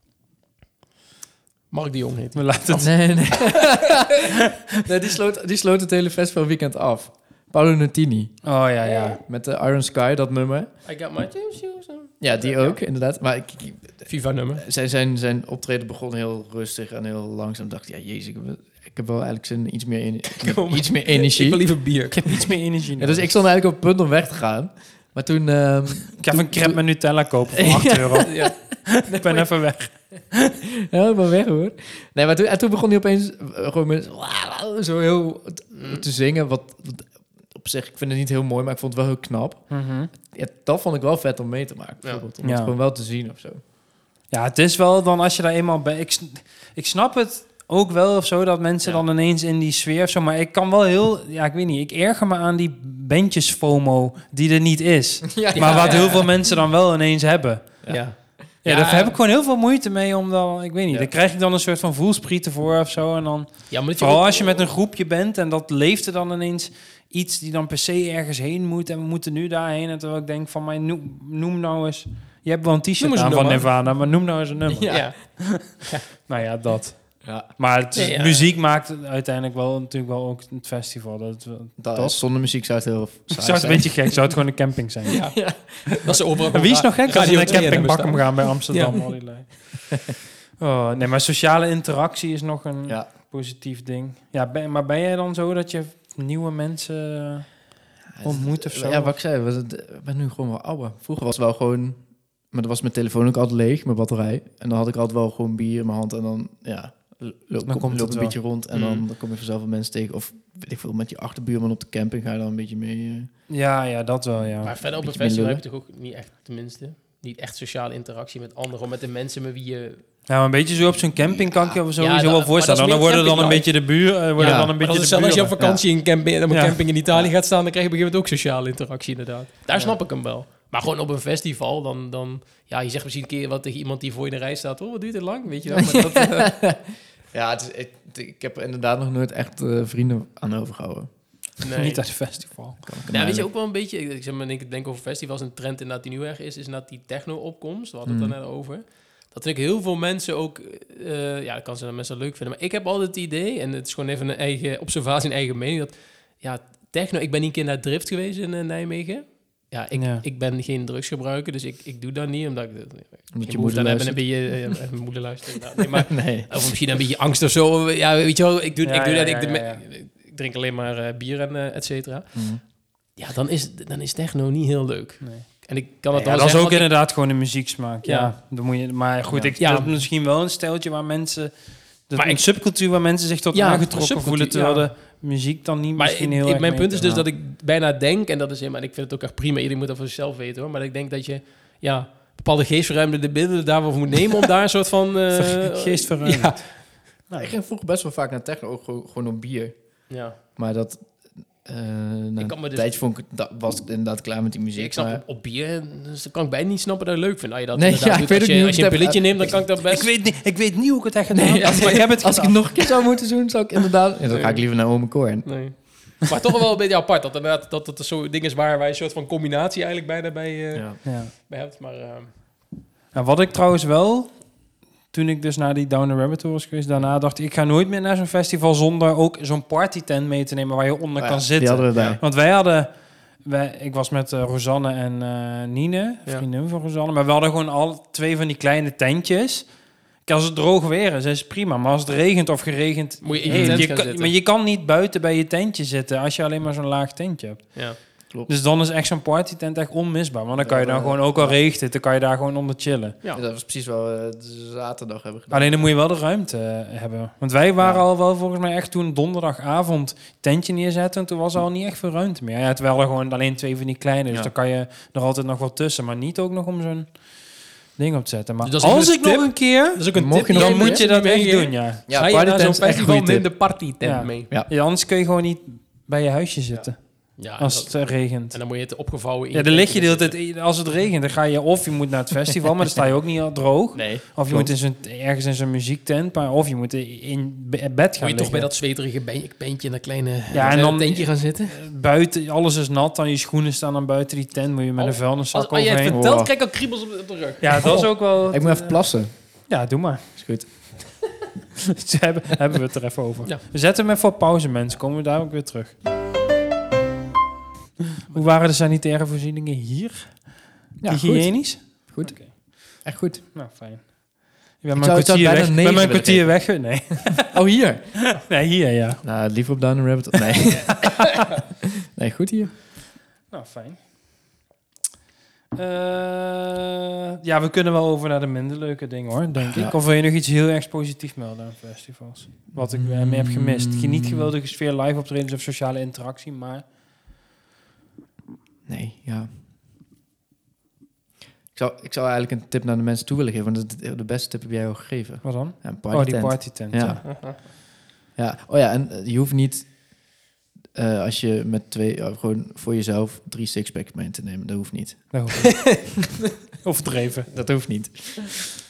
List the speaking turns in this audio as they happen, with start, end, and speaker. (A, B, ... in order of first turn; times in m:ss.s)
0:01.7-0:02.9 A
0:02.4-0:03.1 B
0:02.8-0:08.5 C
0:08.4-0:09.2 B
0:08.8-0:09.1 A
0:09.2-0:10.7 C
0:10.9-0:12.8 A
0:12.2-0:22.3 C
0:14.1-0:14.6 A
0:20.4-0:22.4 A
0:22.2-0:23.3 B
0:23.0-0:26.8 C
0:26.2-0:30.5 B
0:27.5-0:28.5 C
0:28.2-0:28.6 A
0:29.1-0:29.4 A
0:30.8-0:43.6 C
0:35.7-0:36.0 A
0:39.7-0:40.1 B
0:42.4-0:42.7 B
0:44.3-0:57.9 B
0:55.3-0:56.4 C
0:55.5-0:56.3 A
0:57.9-0:59.2 A
0:58.6-1:15.7 B
1:03.7-1:04.7 A
1:13.0-1:13.7 A
1:14.7-1:15.1 C
1:14.9-1:16.0 A
1:16.2-1:22.2 B
1:17.2-1:18.1 C
1:17.9-1:18.5 A
1:21.8-1:24.3 C
1:23.4-1:25.3 B
1:25.1-1:26.0 C
1:25.1-1:29.0 A
1:26.5-1:30.0 B
1:27.2-1:27.8 C
1:30.6-1:37.5 B
1:38.2-1:53.3 C
1:38.2-1:39.2 B
1:47.6-1:48.4 B
1:48.7-1:49.0 A
1:53.5-1:54.7 B
1:54.6-2:00.0 A
1:54.8-1:55.6 C
2:00.3-2:05.6 B
2:01.3-2:01.8 C
2:02.0-2:16.6 A
2:04.4-2:04.8 C
2:05.6-2:05.8 C
2:06.5-2:06.8 B
2:15.7-2:21.1 C
2:21.6-2:22.0 A
2:21.7-2:22.9 B
2:22.9-2:23.5 C
2:23.1-2:56.9 A
2:28.0-2:28.4 C
2:39.9-2:40.2 B
2:43.3-2:44.7 C
2:45.8-2:46.5 C
2:48.8-2:49.8 B
2:52.3-2:52.6 C
2:55.2-2:55.5 B
2:56.2-3:07.2 B
2:58.0-2:58.3 A
2:59.3-2:59.6 C
2:59.6-2:59.9 A
3:02.2-3:02.5 A
3:03.5-3:05.0 A
3:06.0-3:16.7 A
3:15.3-3:17.5 B
3:17.3-3:25.2 C
3:20.1-3:20.4 A
3:22.4-3:22.9 A
3:24.7-3:30.1 A
3:27.7-3:29.6 C
3:29.9-3:32.9 B
3:31.3-3:35.8 C
3:34.3-3:34.7 A
3:35.4-3:42.4 A
3:40.7-3:41.0 C
3:41.0-3:41.3 B
3:43.1-3:44.5 B
3:45.1-3:52.9 B
3:51.2-3:52.2 C
3:51.9-3:52.2 A
3:53.4-3:59.7 B
4:00.2-4:13.2 B
4:03.2-4:04.3 A
4:03.4-4:03.9 C
4:10.6-4:11.6 C
4:13.3-4:15.8 C
4:15.5-4:27.2 B
4:17.8-4:18.1 C
4:28.0-4:32.1 B
4:28.6-4:34.5 A
4:30.2-4:31.0 C
4:32.1-4:33.6 C
4:34.0-4:38.6 B
4:37.4-4:40.4 A
4:39.5-4:48.7 B
4:43.9-4:44.7 C
4:48.2-4:51.8 A
4:50.5-4:56.2 B
4:55.0-4:58.1 A
4:56.1-4:56.5 C
4:57.6-4:59.0 B
4:57.8-4:59.3 C
4:59.7-5:00.3 B
5:00.4-5:00.7 C
5:01.8-5:06.0 B
5:08.3-5:17.6 B
5:11.0-5:13.5 C
5:15.0-5:16.7 C
5:17.4-5:18.4 C
5:18.3-5:19.2 B
5:19.2-5:21.4 C
5:21.0-5:21.2 B
5:22.1-5:22.7 C
5:23.5-5:24.0 B
5:25.7-5:36.8 B
5:29.6-5:30.0 C
5:32.7-5:34.5 C
5:38.9-5:39.5 C
5:41.8-5:47.7 C
5:45.4-5:47.3 B
5:47.2-5:47.6 A
5:48.4-5:50.2 C
5:51.0-5:55.5 C
5:55.3-5:56.2 B
5:55.6-5:56.0 A
5:56.8-5:57.5 B
5:57.5-5:58.7 C